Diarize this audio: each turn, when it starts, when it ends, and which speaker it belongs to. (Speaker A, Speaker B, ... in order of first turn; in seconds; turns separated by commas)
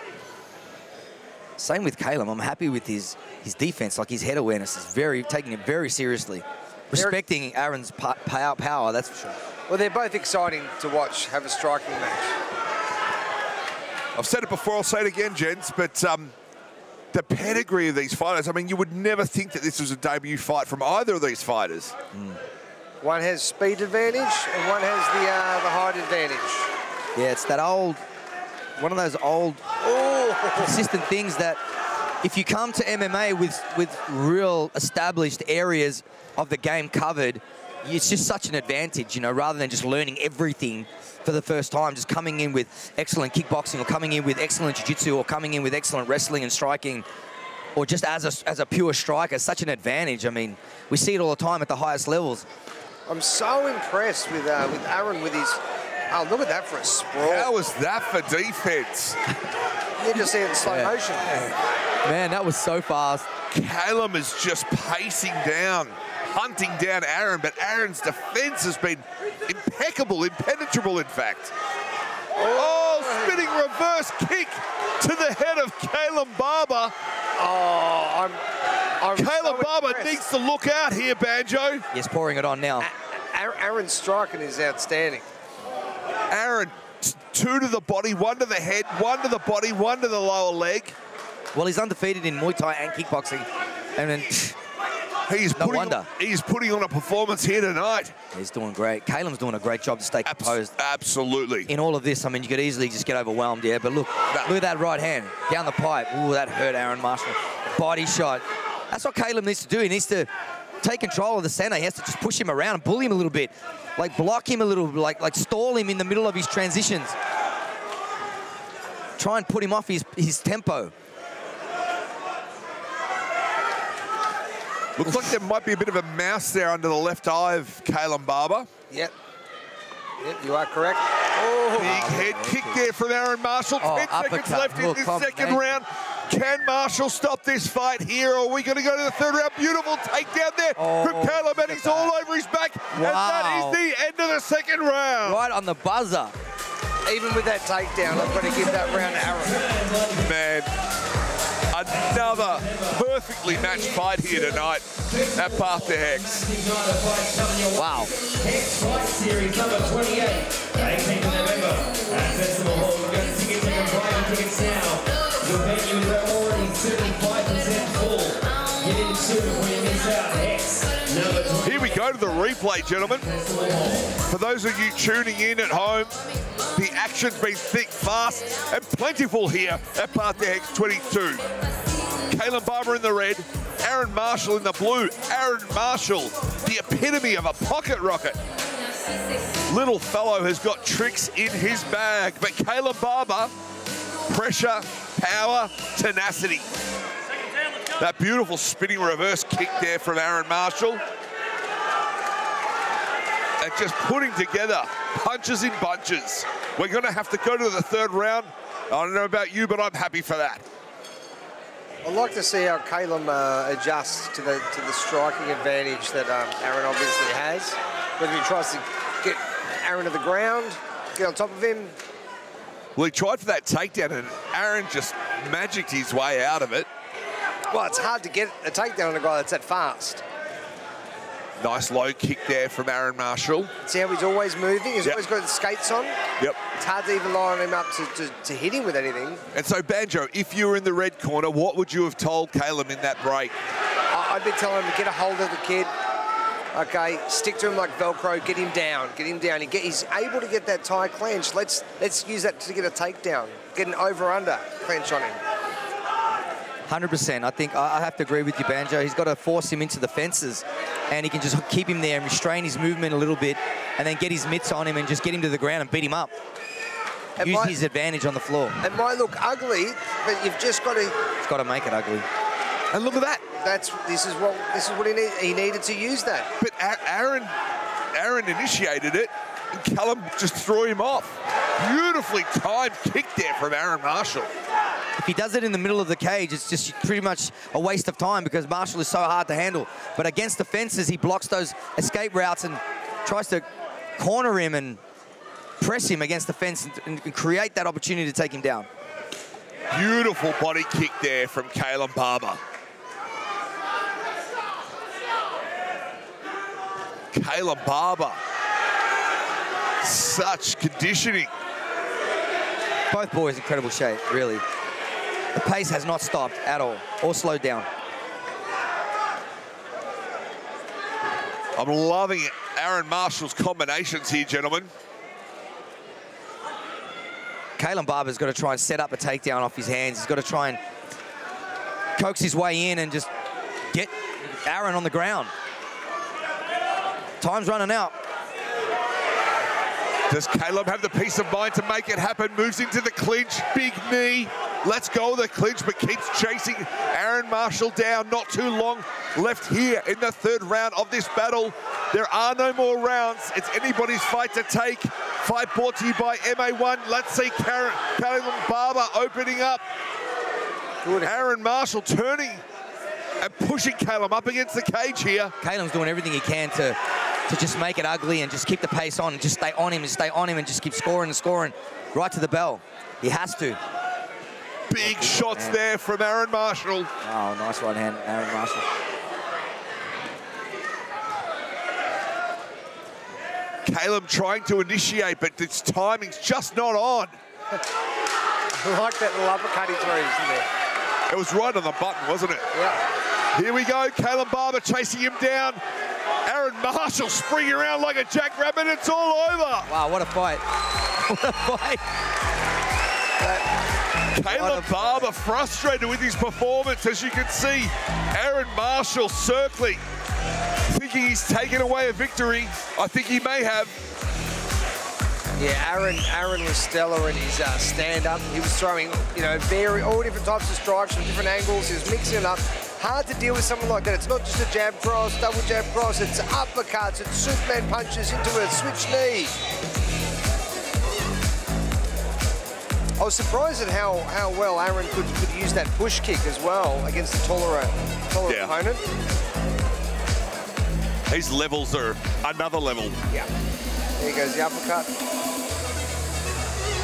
Speaker A: 1.6-9.3, Speaker B: 6.9-7.2, Speaker B: 9.7-12.3, Speaker C: 14.1-16.3, Speaker C: 17.1-21.9, Speaker A: 22.1-22.4, Speaker B: 23.0-26.7, Speaker A: 27.1-28.0, Speaker A: 28.8-29.6, Speaker B: 29.8-30.7, Speaker A: 30.6-31.6, Speaker A: 32.2-47.0, Speaker A: 47.8-52.5, Speaker B: 53.1-55.6, Speaker B: 56.1-57.5, Speaker C: 57.1-59.2, Speaker B: 60.0-61.3, Speaker A: 60.6-63.3, Speaker C: 63.5-71.5, Speaker B: 72.3-73.5, Speaker C: 72.5-76.9, Speaker B: 77.4-78.4, Speaker B: 79.0-80.2, Speaker C: 79.1-81.8, Speaker A: 81.9-82.9, Speaker B: 82.8-85.2, Speaker C: 86.3-90.9, Speaker A: 91.5-94.6, Speaker C: 95.3-98.1, Speaker A: 95.5-96.1, Speaker A: 98.3-100.7, Speaker C: 100.2-101.7, Speaker A: 101.7-110.3, Speaker A: 110.8-117.2, Speaker A: 119.2-120.9, Speaker C: 125.0-128.7, Speaker B: 130.2-132.2, Speaker C: 131.8-145.4, Speaker A: 131.8-132.8, Speaker A: 133.8-135.7, Speaker A: 140.8-142.1, Speaker A: 142.9-143.8, Speaker A: 145.2-146.3, Speaker B: 147.0-149.6, Speaker D: 148.1-150.3, Speaker C: 150.2-150.7, Speaker C: 151.7-156.5, Speaker D: 151.9-172.1, Speaker A: 157.7-158.1, Speaker C: 171.6-173.3, Speaker D: 173.2-174.1, Speaker C: 174.2-176.2, Speaker C: 176.7-181.4, Speaker C: 182.3-188.4, Speaker C: 189.7-193.5, Speaker C: 194.3-196.7, Speaker C: 198.0-201.0, Speaker C: 203.6-210.6, Speaker B: 212.0-221.9, Speaker C: 222.9-226.9, Speaker B: 227.7-230.2, Speaker C: 231.6-233.7, Speaker B: 233.8-239.4, Speaker C: 239.5-243.6, Speaker B: 244.1-245.9, Speaker B: 246.7-255.4, Speaker A: 256.9-266.3, Speaker B: 267.4-267.8, Speaker A: 267.4-268.8, Speaker B: 268.8-271.2, Speaker A: 271.4-272.2, Speaker C: 272.9-273.4, Speaker B: 273.5-276.5, Speaker C: 276.6-277.5, Speaker C: 278.1-284.5, Speaker A: 285.2-293.6, Speaker A: 294.2-295.0, Speaker A: 295.8-298.9, Speaker C: 299.9-302.6, Speaker C: 307.3-308.4, Speaker C: 310.0-311.5, Speaker A: 313.1-314.6, Speaker A: 315.5-317.9, Speaker C: 321.8-324.9, Speaker A: 327.8-330.8, Speaker A: 332.2-333.3, Speaker A: 333.9-335.5, Speaker A: 337.4-338.1, Speaker C: 340.3-359.8, Speaker B: 361.0-361.5, Speaker C: 361.2-362.6, Speaker C: 363.4-365.5, Speaker A: 365.6-373.8, Speaker C: 374.9-377.1, Speaker A: 375.0-375.8, Speaker A: 377.2-378.9, Speaker C: 383.9-387.3, Speaker B: 388.7-390.7, Speaker C: 391.3-392.7, Speaker B: 392.7-393.0, Speaker C: 393.5-395.8, Speaker C: 396.4-399.9, Speaker A: 399.9-402.0, Speaker C: 404.3-410.0, Speaker A: 404.4-405.2, Speaker C: 410.9-413.9, Speaker B: 415.6-429.5, Speaker B: 433.2-439.0, Speaker C: 438.4-438.7, Speaker C: 441.3-443.2, Speaker B: 444.2-445.1